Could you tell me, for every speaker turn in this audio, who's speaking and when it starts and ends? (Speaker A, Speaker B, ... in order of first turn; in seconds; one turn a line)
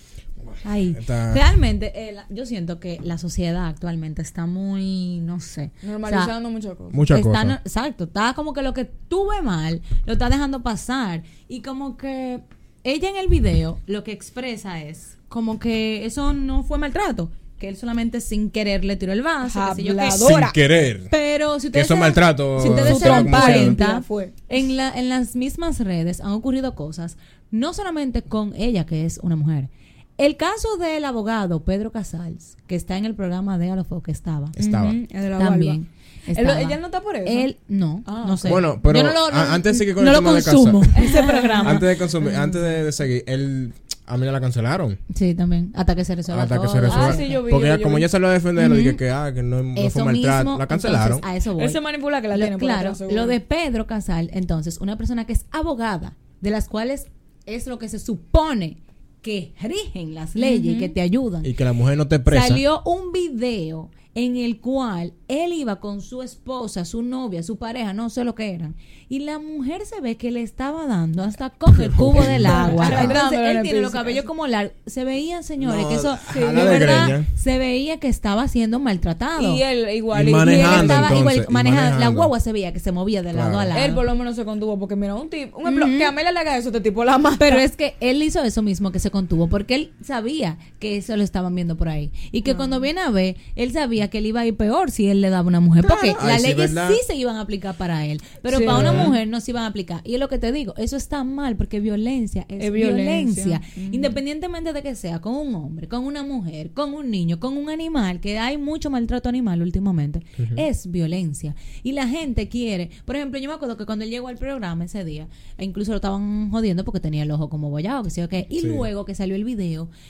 Speaker A: 0.4-1.4
Speaker B: 0.6-6.3
Speaker C: 5.8-7.0
Speaker A: 6.9-7.6
Speaker B: 7.1-20.2
Speaker C: 19.4-20.6
Speaker A: 20.1-21.1
Speaker B: 21.1-34.6
Speaker A: 21.7-23.8
Speaker C: 22.6-24.4
Speaker A: 34.6-35.0
Speaker C: 34.6-35.8
Speaker B: 35.4-41.9
Speaker C: 36.4-37.5
Speaker C: 38.0-38.6
Speaker A: 38.4-40.9
Speaker C: 41.0-42.3
Speaker A: 41.6-45.0
Speaker B: 45.1-47.3
Speaker A: 46.3-51.2
Speaker C: 46.9-48.1
Speaker B: 48.6-49.0
Speaker B: 49.8-51.8
Speaker C: 51.6-53.4
Speaker B: 52.3-61.5
Speaker C: 60.4-60.9
Speaker A: 61.4-62.6
Speaker B: 62.3-79.6
Speaker A: 71.8-73.2
Speaker C: 72.1-74.3
Speaker A: 75.6-77.3
Speaker C: 76.3-77.1
Speaker C: 79.4-81.2
Speaker A: 80.1-82.3
Speaker B: 80.3-84.0
Speaker A: 83.3-83.8
Speaker C: 83.8-87.6
Speaker B: 85.7-86.1
Speaker B: 87.4-119.9
Speaker C: 92.5-92.9
Speaker A: 95.8-97.0
Speaker C: 98.5-99.2
Speaker A: 98.7-99.1
Speaker C: 102.6-104.2
Speaker A: 110.4-110.6
Speaker A: 118.6-118.9